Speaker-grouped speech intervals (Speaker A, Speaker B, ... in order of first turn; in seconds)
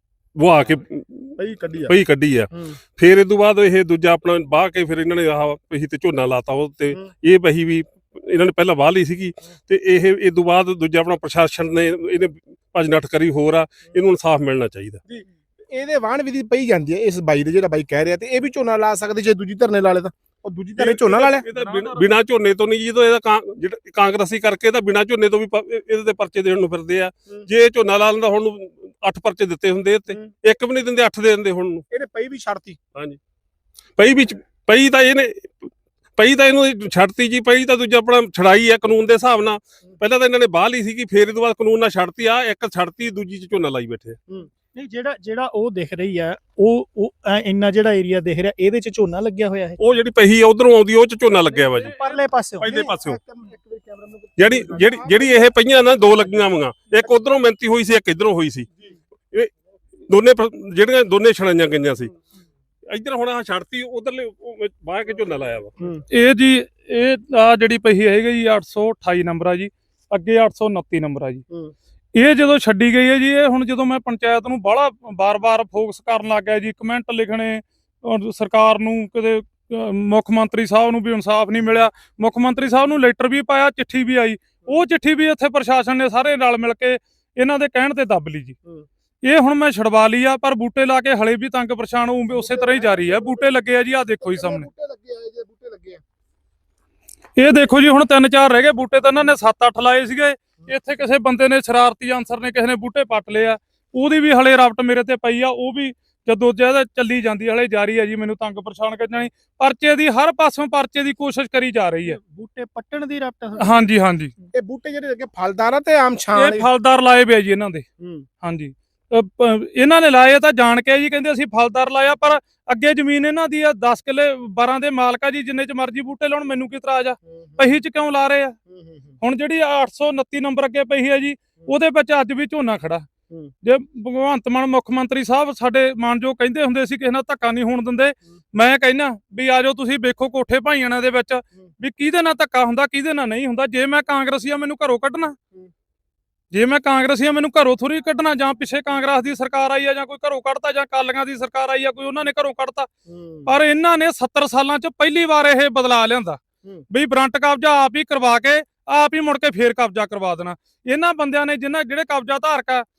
Speaker A: 0.3-1.4, 1.9-15.0, 20.8-31.8, 34.0-44.2, 49.8-52.0, 52.6-53.2, 54.4-58.7, 60.1-62.1, 62.9-65.7
Speaker B: 1.4-1.9, 15.1-21.4, 31.9-32.8, 51.5-55.5, 56.0-56.5, 65.8-66.0, 92.3-93.4, 94.2-96.0, 114.5-116.7, 118.0-118.2, 127.4-127.6, 128.7-129.1, 153.1-153.5
Speaker C: 21.5-22.1, 66.1-71.4, 72.1-88.5, 89.2-94.7, 97.4-112.2, 113.6-114.3, 116.3-117.8, 118.4-128.6, 129.2-133.1, 133.6-145.3, 146.5-152.9, 153.4-162.8
Speaker D: 44.7-49.8, 51.8-52.7, 112.0-113.8